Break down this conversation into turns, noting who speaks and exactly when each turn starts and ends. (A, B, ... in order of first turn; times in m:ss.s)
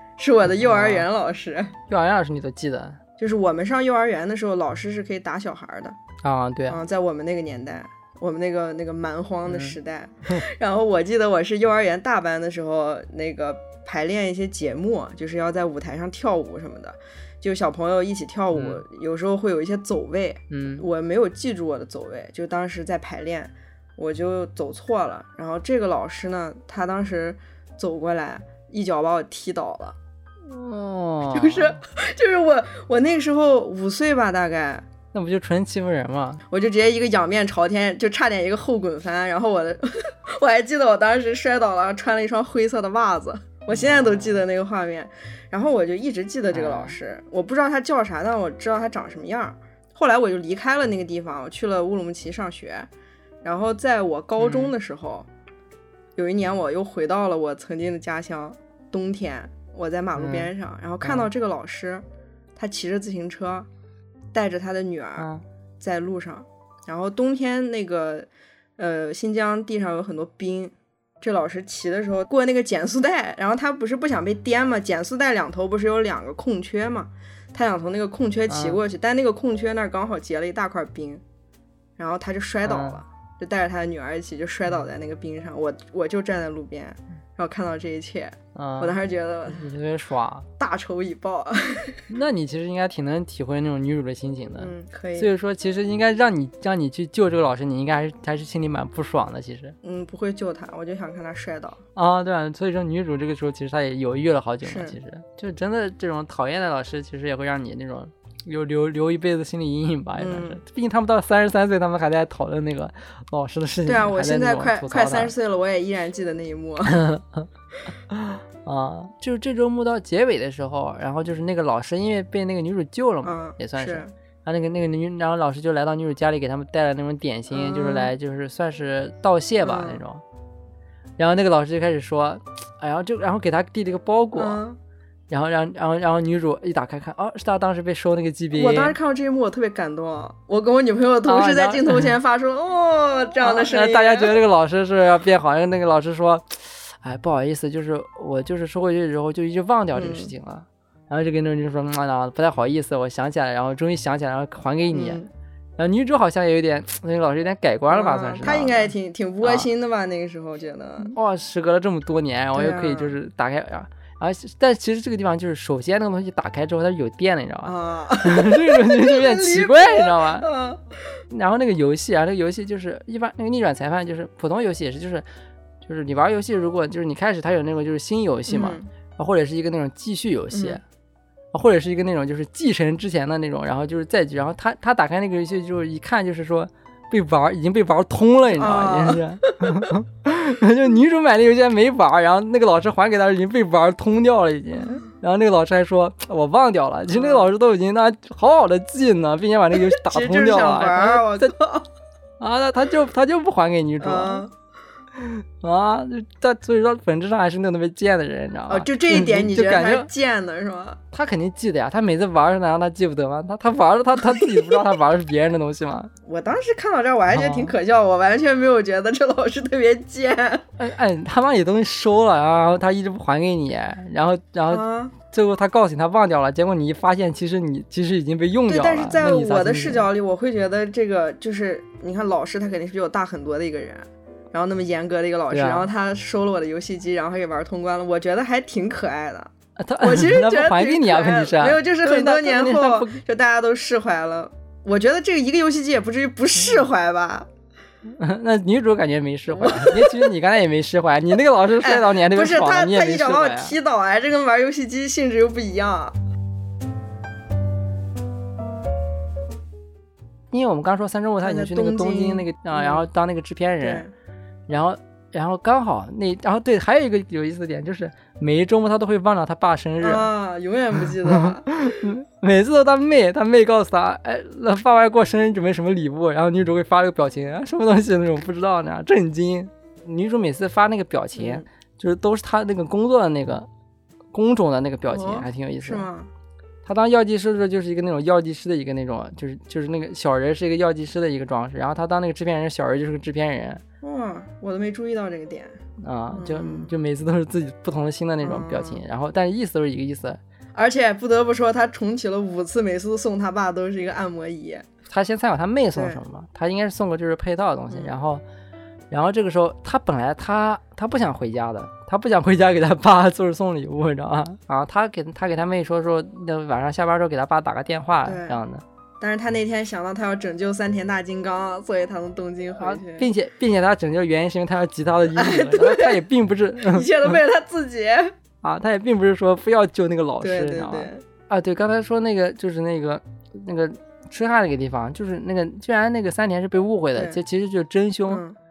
0:00.2-0:01.8 A
0:00.6-0:01.1 B
0:01.9-0:03.0 B
0:03.2-0:06.0 A
0:06.2-0:06.8 B
0:06.7-0:30.0 A
0:09.5-0:09.8 B
0:18.5-0:18.8 B
0:20.5-0:20.9 B
0:30.5-0:31.8 B
0:31.3-0:34.9 A
0:35.1-0:36.4 B
0:36.5-0:52.9 A
0:43.7-0:44.4 B
0:46.5-0:47.0 B
0:53.4-0:55.3 A
0:54.4-0:54.7 B
0:56.2-1:02.0 A
1:00.2-1:00.5 B
1:01.0-1:01.3 B
1:02.6-1:03.7 A
1:04.3-1:05.3 A
1:05.2-1:05.4 B
1:05.8-1:21.2 A
1:18.5-1:18.8 B
1:22.0-1:29.7 A
1:22.6-1:23.0 B
1:28.5-1:30.5 B
1:30.6-1:32.0 A
1:32.1-1:39.8 B
1:34.6-1:35.3 A
1:39.8-1:41.8 A
1:42.0-1:55.3 B
1:44.6-1:45.0 A
1:50.2-1:50.6 A
1:53.8-1:57.0 A
1:56.8-1:57.5 B
1:58.1-2:10.2 B
2:03.2-2:04.1 A
2:07.5-2:08.1 A
2:09.6-2:10.0 A
2:11.2-2:14.6 B
2:14.4-2:14.8 A
2:15.3-2:19.0 B
2:18.5-2:24.3 A
2:21.2-2:22.1 B
2:23.4-2:35.2 B
2:29.9-2:30.3 A
2:34.9-2:35.3 A
2:35.8-2:39.7 B
2:37.9-2:41.1 A
2:41.0-2:50.5 B
2:42.5-2:43.1 A
2:47.6-2:50.9 A
2:51.3-2:55.2 B
2:55.8-3:00.8 B
2:58.5-2:58.9 A
3:00.5-3:00.8 A
3:01.5-3:21.5 B
3:08.5-3:09.9 A
3:17.1-3:17.5 A
3:19.7-3:21.9 A
3:22.4-3:24.4 B
3:24.0-3:24.5 A
3:25.2-3:30.1 B
3:28.7-3:31.0 A
3:31.1-3:36.1 B
3:34.2-3:34.8 A
3:36.2-3:40.6 A
3:37.3-3:37.7 B
3:40.8-3:50.1 B
3:44.7-3:45.1 A
3:48.7-4:07.5 A
3:55.5-3:55.9 B
3:59.8-4:03.2 B
4:08.2-4:13.7 B
4:09.5-4:10.3 A
4:11.8-4:16.2 A
4:20.5-4:24.0 B
4:21.4-4:23.0 A
4:23.8-4:24.1 A
4:24.7-4:30.3 B
4:30.0-4:32.0 A
4:31.0-4:43.7 B
4:41.3-4:41.6 A
4:44.3-4:46.1 B
4:45.1-4:46.3 A
4:46.8-4:53.8 B
4:54.0-4:55.8 A
4:56.0-5:00.4 B
4:56.3-4:56.9 A
4:58.4-4:59.0 A
5:00.7-5:04.9 A
5:05.1-5:08.4 B
5:05.9-5:06.2 A
5:07.9-5:08.2 A
5:09.1-5:18.8 B
5:18.2-5:18.6 A
5:19.2-5:23.3 A
5:22.8-5:27.4 B
5:25.3-5:26.2 A
5:26.8-5:28.3 A
5:28.6-5:38.4 B
5:30.4-5:31.2 A
5:38.3-5:38.6 A